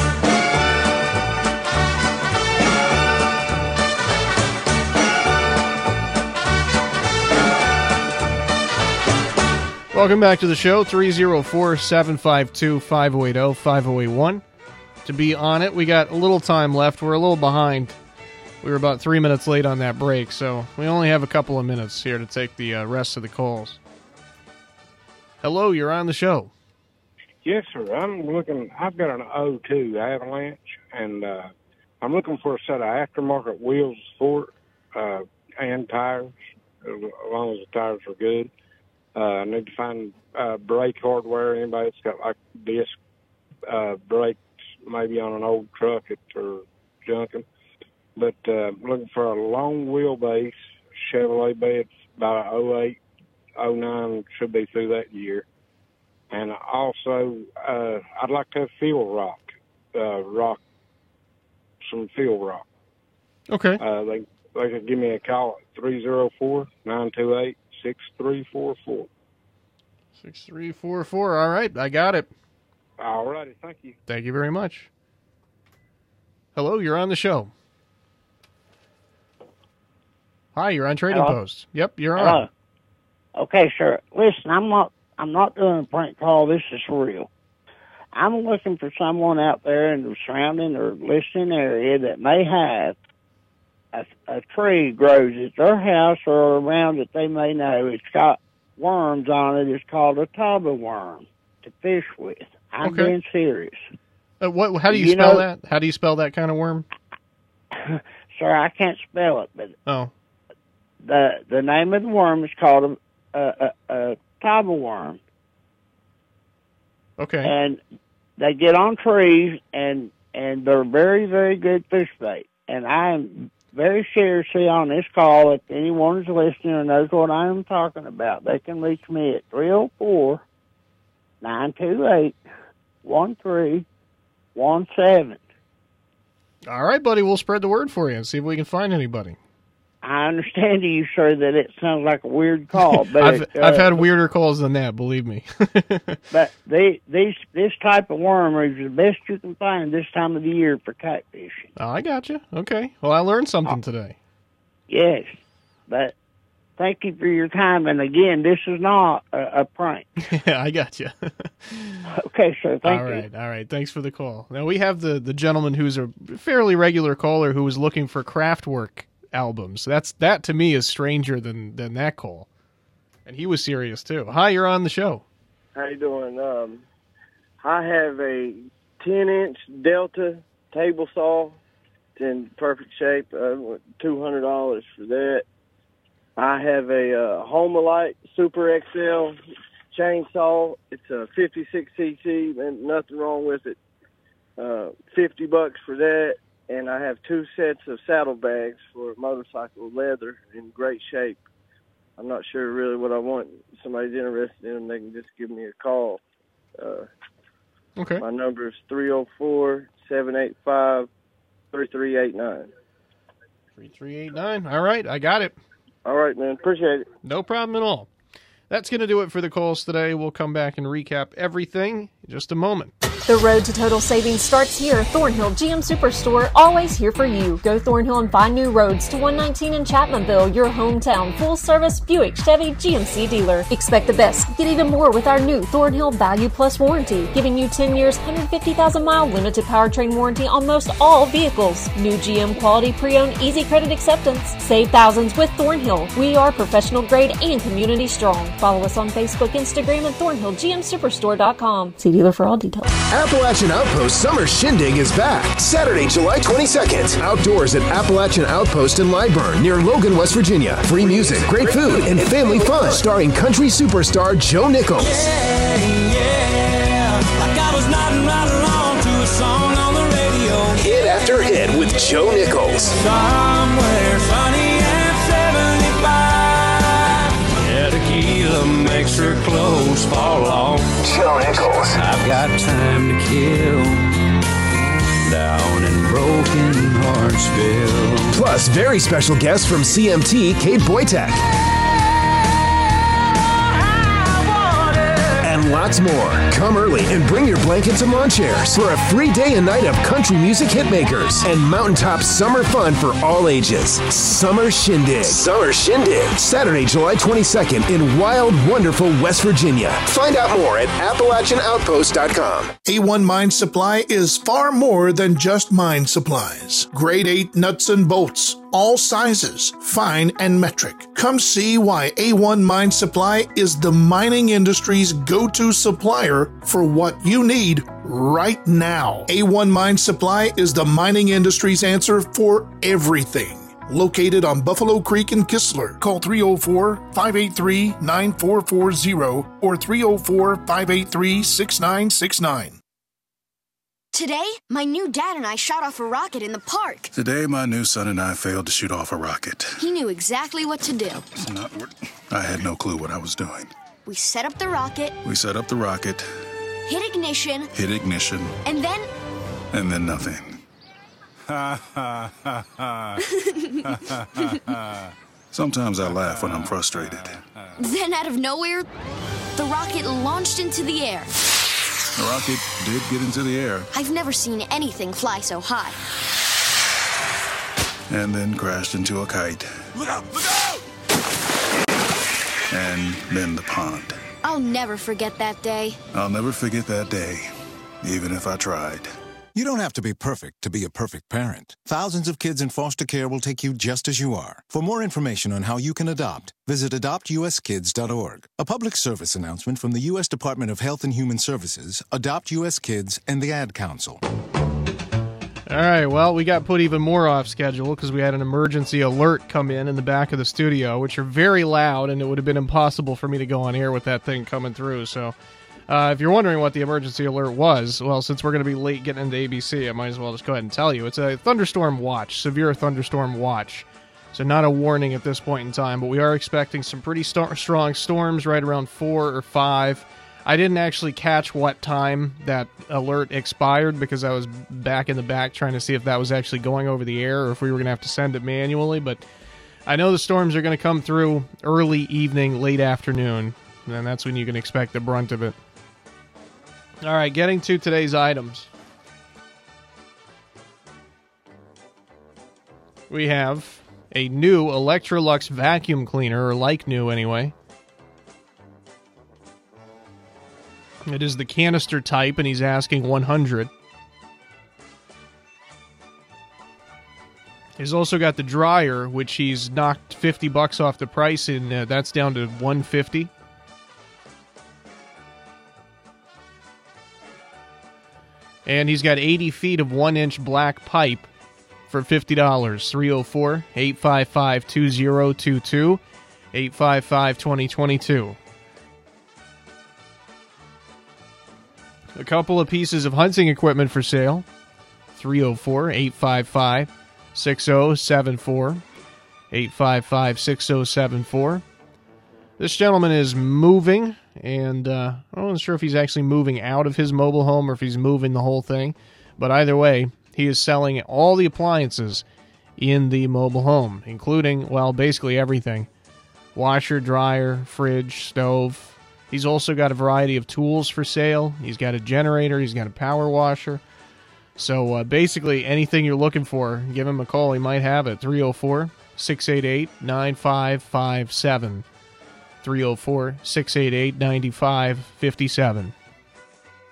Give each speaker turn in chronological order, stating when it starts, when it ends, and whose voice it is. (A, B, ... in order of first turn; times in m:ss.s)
0:09.9-0:14.4 A
0:15.0-0:18.0 A
0:18.6-0:23.8 A
0:25.4-0:26.5 A
0:27.4-0:31.5 B
0:32.0-0:36.3 B
0:36.8-0:38.5 B
0:39.1-0:42.9 B
0:43.7-0:47.4 B
0:48.2-0:53.0 B
0:53.6-0:55.4 B
0:56.3-1:00.6 B
1:01.8-1:02.6 B
1:03.5-1:03.8 A
1:03.8-1:09.1 B
1:10.2-1:12.3 A
1:13.0-1:13.9 B
1:14.1-1:14.9 A
1:16.6-1:17.5 A
1:20.6-1:22.4 A
1:21.1-1:21.4 C
1:22.2-1:22.5 C
1:23.4-1:27.3 C
1:28.1-1:33.0 C
1:33.9-1:43.8 C
1:42.8-1:43.1 A
1:44.4-1:46.9 A
1:44.9-1:45.4 C
1:47.7-1:49.8 C
1:49.9-1:50.1 A
1:51.0-1:55.2 C
1:57.2-1:57.5 A
1:57.4-1:57.8 C
1:58.4-2:10.4 C
2:11.4-2:12.4 C
2:13.0-2:13.9 C
2:14.6-2:15.4 C
2:16.7-2:19.4 A
2:20.0-2:24.0 C
2:22.8-2:26.2 A
2:26.3-2:31.7 C
2:31.8-2:34.2 A
2:34.9-2:35.4 C
2:35.9-2:36.1 C
2:36.8-2:40.1 C
2:40.2-2:42.1 A
2:42.1-2:43.2 C
2:42.8-2:52.5 A
2:53.3-2:55.2 A
2:55.8-2:56.8 D
2:57.6-3:01.6 D
3:02.2-3:05.4 D
3:06.4-3:09.4 D
3:09.9-3:13.8 D
3:14.6-3:21.4 D
3:22.2-3:26.2 D
3:26.8-3:27.1 D
3:28.0-3:28.2 A
3:28.2-3:31.1 D
3:31.7-3:32.7 D
3:33.8-3:35.6 A
3:36.0-3:37.1 D
3:37.2-3:38.1 A
3:38.7-3:42.9 A
3:43.3-4:12.0 E
4:12.0-4:12.9 F
4:13.1-4:25.2 G
4:25.2-4:30.8 F
4:30.8-4:32.9 G
4:33.0-4:41.0 F
4:41.0-4:42.0 G
4:41.9-4:44.2 F
4:45.2-4:48.4 F
4:48.3-4:51.4 G
4:55.4-5:12.7 G
5:12.8-5:42.8 H
5:44.1-5:47.1 I
5:47.1-5:49.8 J
5:49.8-5:51.3 I
5:51.4-5:53.7 J
5:54.0-5:55.2 I
5:55.2-5:56.3 J
5:56.9-5:57.7 I
5:57.7-5:58.6 J
5:58.6-5:59.1 I
5:59.7-6:00.6 J
6:01.6-6:02.0 J
6:05.5-6:07.4 J
6:07.8-6:08.9 I
6:09.6-6:11.3 I
6:12.2-6:13.9 J
6:13.9-6:16.0 I
6:18.1-6:20.5 J
6:22.7-6:24.2 J
6:24.4-6:26.0 I
6:26.1-6:27.5 J
6:28.0-6:29.1 J
6:29.5-6:44.2 K
6:45.7-6:55.4 A
6:55.9-7:19.2 A
7:19.9-7:25.6 A
7:27.0-7:28.7 A
7:33.1-7:37.5 A
7:41.1-7:43.7 A
7:47.8-7:53.3 A
7:58.6-8:01.3 A
8:01.9-8:06.0 A
8:06.5-8:08.4 A
8:12.2-8:14.4 A
8:15.1-8:18.8 A
8:19.5-8:21.6 A
8:22.6-8:32.2 A
8:32.8-8:35.9 A
8:36.6-8:43.8 A
8:44.6-8:51.9 A
8:52.6-8:55.9 A